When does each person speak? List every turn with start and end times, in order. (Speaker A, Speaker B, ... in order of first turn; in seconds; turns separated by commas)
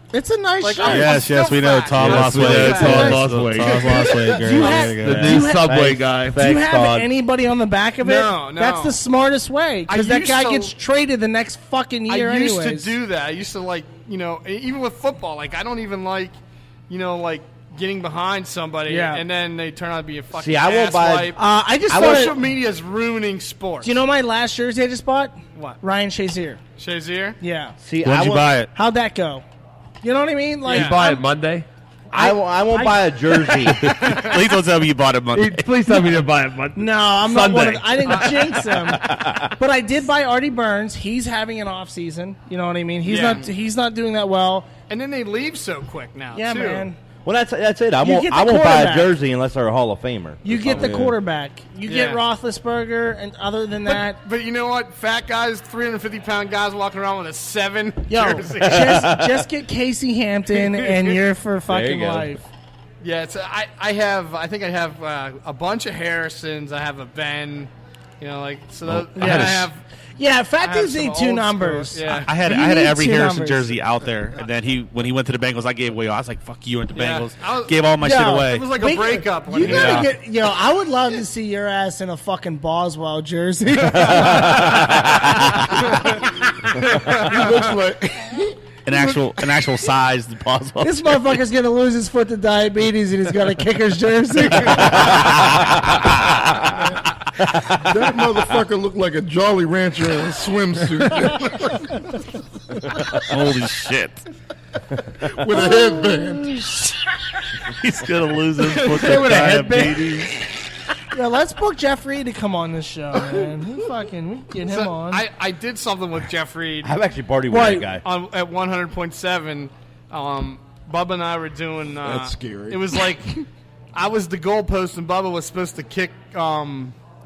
Speaker A: 0.1-1.2, Speaker B: 0.6-3.2, Speaker C: 0.8-5.4, Speaker D: 1.9-6.5, Speaker A: 2.5-3.3, Speaker A: 3.8-5.8, Speaker E: 5.0-7.1, Speaker A: 6.3-12.9, Speaker B: 8.0-9.0, Speaker B: 9.9-10.7, Speaker B: 12.1-16.4, Speaker B: 16.9-24.0, Speaker A: 18.9-19.2, Speaker E: 20.3-21.4, Speaker A: 21.4-22.3, Speaker E: 21.9-22.4, Speaker A: 23.8-26.6, Speaker B: 26.8-27.4, Speaker A: 27.4-27.8, Speaker E: 27.8-28.7, Speaker C: 28.1-28.7, Speaker D: 28.1-28.4, Speaker A: 28.7-29.4, Speaker A: 30.0-31.2, Speaker D: 30.7-31.6, Speaker B: 30.7-31.0, Speaker E: 32.1-34.1, Speaker A: 32.1-33.6, Speaker B: 33.9-34.4, Speaker C: 34.0-35.7, Speaker D: 35.3-37.8, Speaker A: 36.8-44.7, Speaker B: 38.1-38.8, Speaker B: 43.0-43.5, Speaker B: 44.9-46.9, Speaker A: 46.4-47.0, Speaker E: 47.2-51.2, Speaker A: 48.0-49.1, Speaker A: 50.4-54.2, Speaker B: 51.9-52.2, Speaker B: 53.9-59.1, Speaker A: 58.1-62.4, Speaker E: 58.7-59.4, Speaker B: 60.6-61.2, Speaker E: 61.7-62.3, Speaker B: 63.0-69.8, Speaker C: 68.8-69.7, Speaker A: 69.2-69.7, Speaker A: 70.2-73.7, Speaker B: 70.6-72.3, Speaker C: 72.2-78.9, Speaker B: 76.9-80.1, Speaker A: 78.0-84.9, Speaker C: 79.6-80.1, Speaker F: 86.8-88.6, Speaker B: 86.9-87.7, Speaker C: 88.9-91.2, Speaker A: 90.8-95.4, Speaker E: 94.8-96.5, Speaker F: 97.7-102.0, Speaker C: 103.2-104.2, Speaker F: 105.2-106.8, Speaker A: 105.7-106.0, Speaker C: 107.8-110.3, Speaker A: 108.9-110.2, Speaker A: 111.1-115.2, Speaker B: 114.7-117.0, Speaker E: 116.8-118.0, Speaker A: 117.5-117.8, Speaker B: 118.0-127.0, Speaker F: 122.0-123.1